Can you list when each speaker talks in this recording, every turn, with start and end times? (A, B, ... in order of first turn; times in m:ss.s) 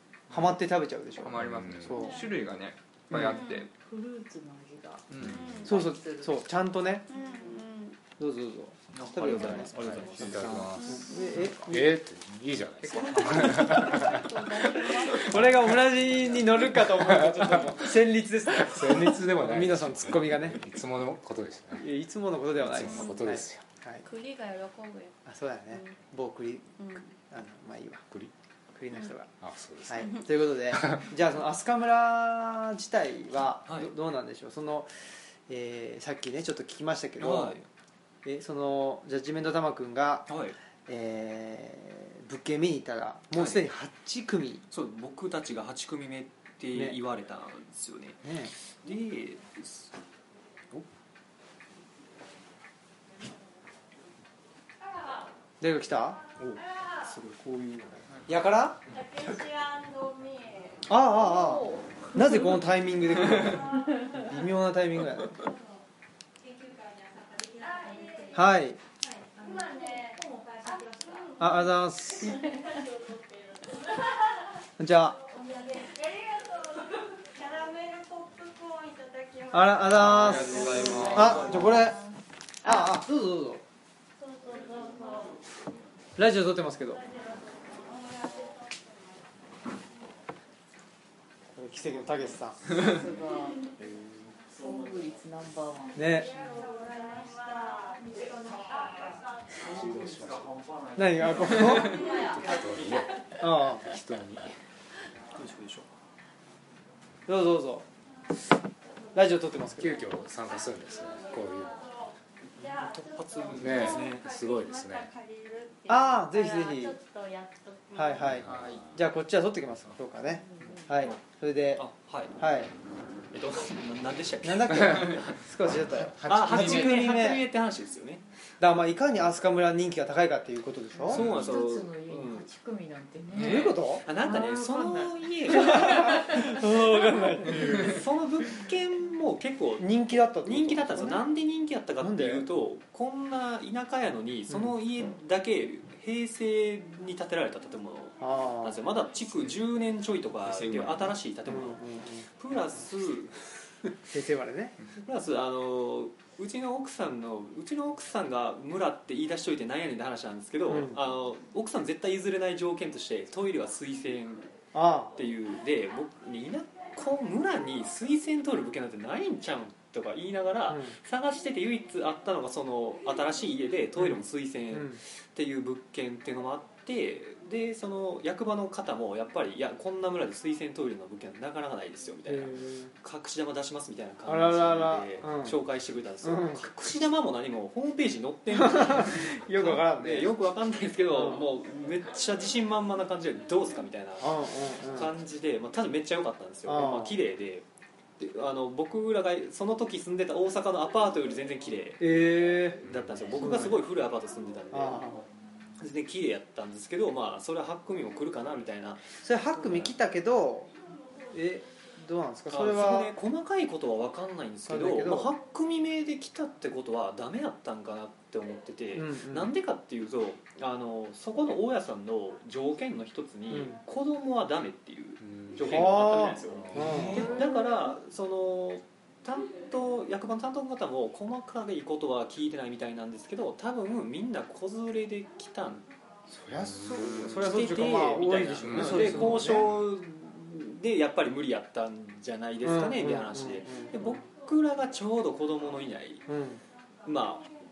0:00.3-0:00.6 A
0:00.3-0:02.2 B
0:01.2-0:03.7 A
0:01.4-0:02.0 C
0:02.0-0:02.3 D
0:03.1-0:03.4 B
0:03.3-0:03.6 D
0:03.6-0:06.4 E
0:05.1-0:05.6 A
0:05.2-0:05.8 D
0:05.6-0:07.0 B
0:07.1-0:08.0 D
0:08.2-0:09.8 B
0:08.9-0:10.9 F
0:09.3-0:14.3 C
0:10.8-0:11.3 D
0:10.9-0:12.0 B
0:12.8-0:15.2 A
0:13.0-0:15.4 E
0:15.0-0:20.6 B
0:15.3-0:15.7 C
0:16.6-0:21.9 C
0:21.8-0:24.0 B
0:22.6-0:23.6 C
0:22.8-0:23.2 D
0:24.0-0:25.2 D
0:25.2-0:28.0 B
0:26.8-0:27.0 D
0:28.8-0:29.3 B
0:29.4-0:31.1 C
0:29.9-0:34.9 B
0:33.6-0:33.9 F
0:35.5-0:37.6 B
0:37.2-0:37.7 F
0:38.2-0:40.3 B
0:40.3-0:40.6 F
0:40.9-0:44.6 B
0:43.4-0:43.6 F
0:44.7-0:49.9 F
0:48.2-0:48.5 B
0:55.6-0:56.2 B
0:56.4-0:58.2 F
0:58.3-0:58.8 B
0:58.9-1:00.9 D
1:00.9-1:05.4 B
1:01.0-1:02.6 E
1:03.0-1:04.1 D
1:03.7-1:04.2 E
1:06.4-1:14.2 D
1:08.3-1:08.8 B
1:11.4-1:12.4 B
1:14.8-1:15.2 B
1:15.2-1:23.0 D
1:19.5-1:22.0 B
1:19.9-1:21.8 A
1:22.6-1:23.6 B
1:24.2-1:25.4 D
1:26.2-1:27.0 B
1:27.0-1:28.9 D
1:31.5-1:32.8 B
1:32.7-1:33.6 E
1:34.5-1:36.7 E
1:36.0-1:36.3 B
1:36.1-1:39.2 D
1:39.5-1:40.6 C
1:41.0-1:42.2 B
1:41.6-1:44.6 C
1:43.4-1:43.9 B
1:45.3-1:45.9 F
1:47.3-1:47.9 B
1:49.1-1:50.0 B
1:49.8-1:51.8 C
1:51.3-1:51.9 D
1:52.6-1:58.3 D
1:52.6-1:54.3 F
1:53.5-1:55.1 C
1:55.9-1:57.0 B
1:57.9-2:01.9 B
1:58.2-1:59.1 C
1:58.4-1:58.8 A
2:00.5-2:00.9 E
2:01.8-2:02.4 F
2:02.4-2:02.7 B
2:03.3-2:05.4 F
2:04.4-2:07.5 B
2:05.6-2:07.2 C
2:06.2-2:08.2 F
2:08.6-2:11.3 B
2:11.0-2:16.6 E
2:11.1-2:12.5 F
2:11.1-2:11.5 A
2:13.3-2:16.6 F
2:13.4-2:14.0 B
2:15.5-2:18.0 B
2:17.7-2:33.9 F
2:19.8-2:21.2 B
2:22.0-2:22.5 B
2:28.2-2:28.8 B
2:30.4-2:31.2 A
2:31.5-2:32.2 B
2:34.1-2:34.8 B
2:35.0-2:44.5 F
2:40.7-2:41.0 B
2:44.7-2:45.1 B
2:45.1-3:17.6 F
2:50.7-2:50.9 B
2:54.7-2:55.0 B
3:02.3-3:02.9 B
3:04.3-3:05.6 B
3:06.2-3:06.6 B
3:08.6-3:10.3 B
3:11.1-3:11.5 B
3:14.2-3:15.1 B
3:16.6-3:17.2 B
3:18.2-3:22.1 F
3:22.0-3:22.8 B
3:22.8-3:25.1 F
3:22.8-3:23.6 C
3:23.4-3:23.8 B
3:24.7-3:25.3 B
3:25.8-3:29.9 F
3:29.2-3:30.7 B
3:31.3-3:33.1 B
3:32.5-3:55.9 F
3:34.6-3:35.3 B
3:38.9-3:39.5 B
3:43.5-3:43.8 B
3:45.2-3:45.9 C
3:45.6-3:47.4 B
3:46.5-3:47.2 C
3:56.3-3:59.7 B
3:56.6-3:57.4 C
3:57.3-4:06.3 F
3:58.6-3:59.7 C
4:02.6-4:04.2 B
4:06.3-4:06.6 B
4:07.0-4:07.5 F